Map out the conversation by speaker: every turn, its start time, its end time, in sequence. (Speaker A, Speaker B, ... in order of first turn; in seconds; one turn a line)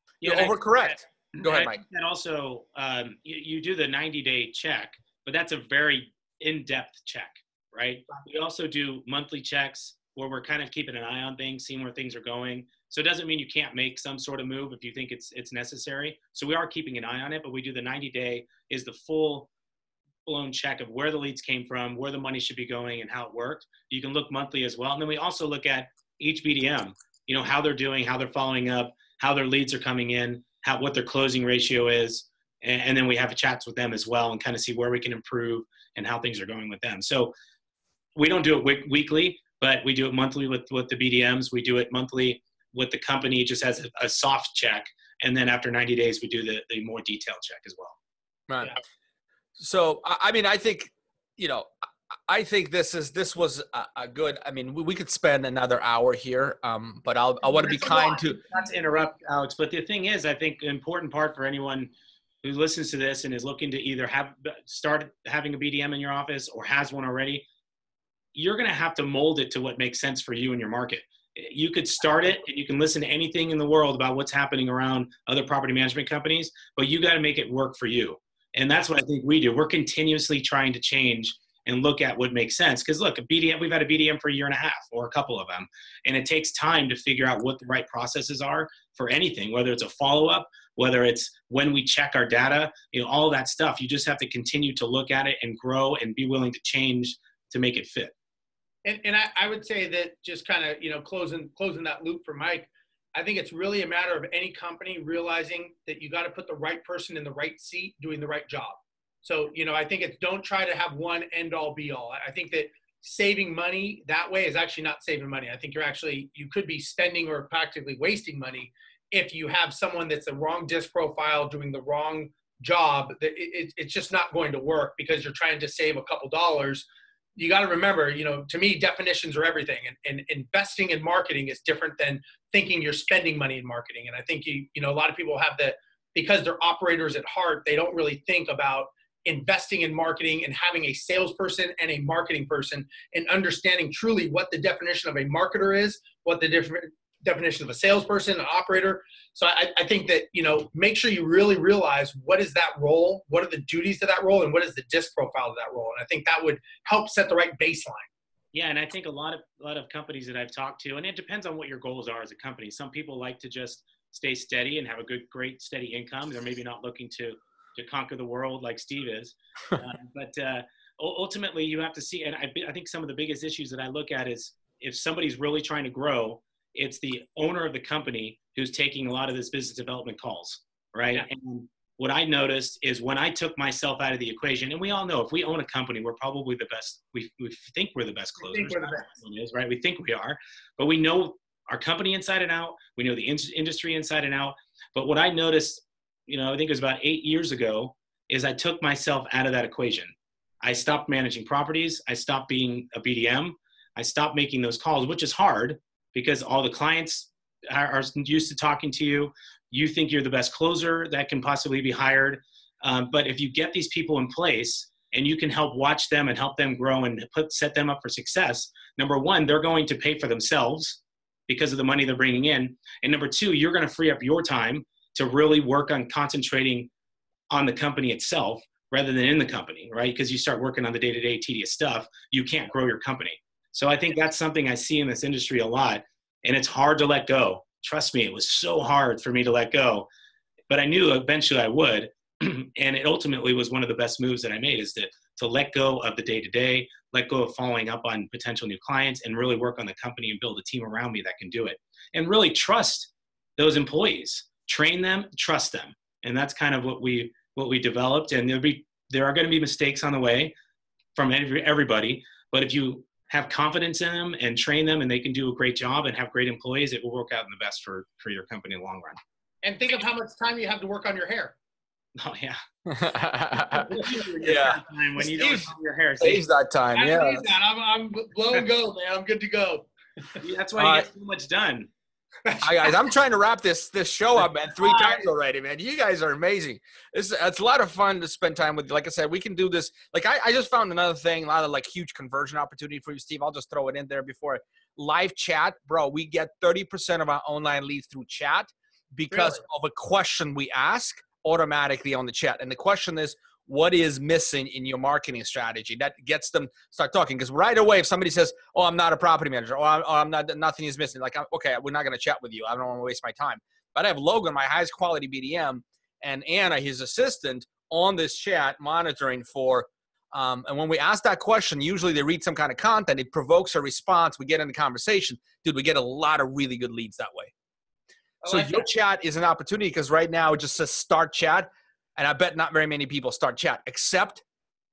Speaker A: 0.2-19.5
Speaker B: 0.2-1.8
Speaker A: 20.2-37.3
Speaker A: 38.1-48.0
Speaker B: 48.5-48.8
Speaker B: 49.6-51.7
Speaker B: 52.3-58.4
Speaker C: 57.6-58.2
Speaker A: 58.2-61.9
Speaker A: 62.4-67.5
Speaker A: 68.3-98.1
Speaker C: 98.8-158.1
Speaker A: 158.5-226.9
Speaker C: 188.4-189.1
Speaker A: 227.5-240.1
Speaker A: 240.7-260.5
Speaker A: 261.2-269.2
Speaker C: 269.6-271.6
Speaker A: 272.1-272.6
Speaker B: 272.9-277.4
Speaker A: 273.8-276.4
Speaker C: 276.9-280.4
Speaker A: 280.4-281.9
Speaker B: 280.8-281.1
Speaker C: 282.4-283.1
Speaker B: 282.6-327.5
Speaker C: 284.8-285.2
Speaker C: 299.3-299.6
Speaker C: 328.4-328.9
Speaker B: 328.4-334.4